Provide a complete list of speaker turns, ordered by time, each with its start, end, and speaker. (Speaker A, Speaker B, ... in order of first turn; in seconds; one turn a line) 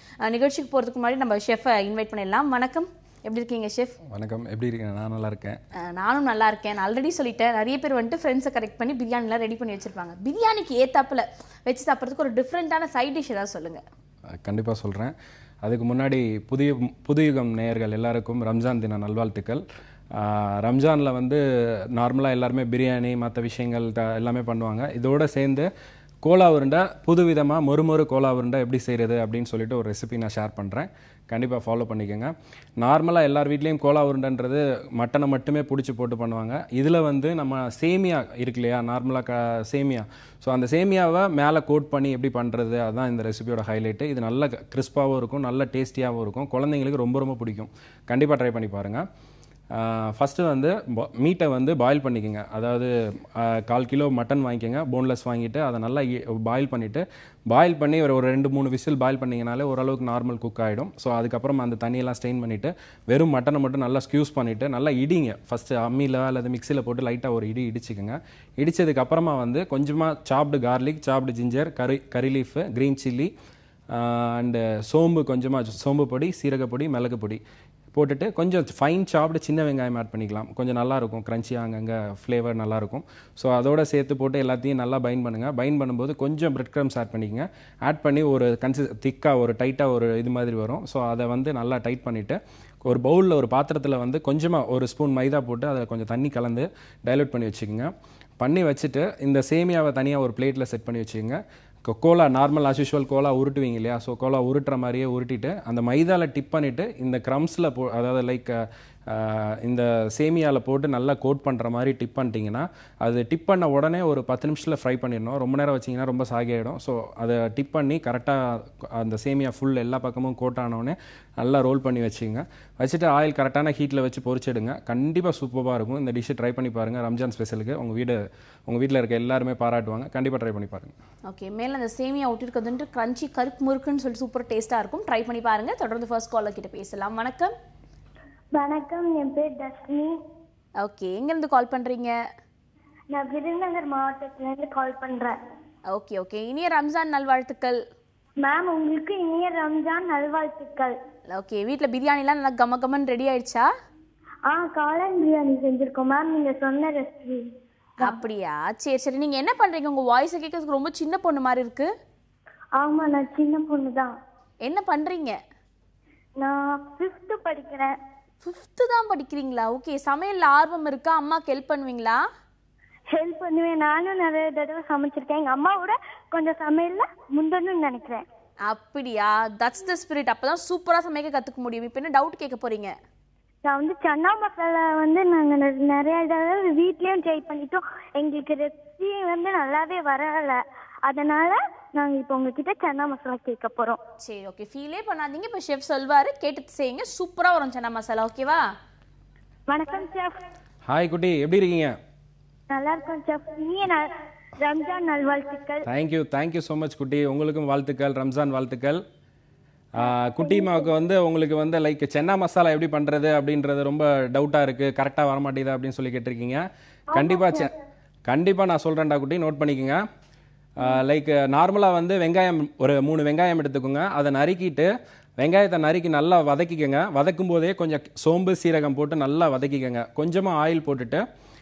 Speaker A: 0.2-4.0
Speaker B: 4.0-5.6
Speaker A: 5.8-13.8
Speaker B: 14.3-21.4
Speaker B: 21.9-25.7
Speaker B: 26.2-49.0
Speaker B: 49.7-73.3
Speaker B: 73.9-77.4
Speaker B: 77.9-130.9
Speaker A: 131.3-137.5
Speaker C: 138.5-140.2
Speaker A: 140.8-142.1
Speaker C: 143.1-145.3
Speaker A: 145.9-147.8
Speaker C: 148.4-150.9
Speaker A: 151.3-153.7
Speaker C: 154.5-157.4
Speaker A: 158.0-161.9
Speaker C: 162.8-164.1
Speaker A: 164.6-165.4
Speaker C: 166.4-167.9
Speaker A: 168.4-172.2
Speaker C: 173.1-178.2
Speaker A: 178.7-182.9
Speaker C: 183.7-194.0
Speaker A: 194.2-198.6
Speaker C: 199.7-200.4
Speaker B: 200.9-201.9
Speaker C: 202.7-204.1
Speaker C: 204.6-205.8
Speaker B: 205.8-209.0
Speaker B: 209.9-217.7
Speaker C: 210.4-210.8
Speaker C: 217.1-217.7
Speaker B: 218.3-220.0
Speaker B: 220.8-231.2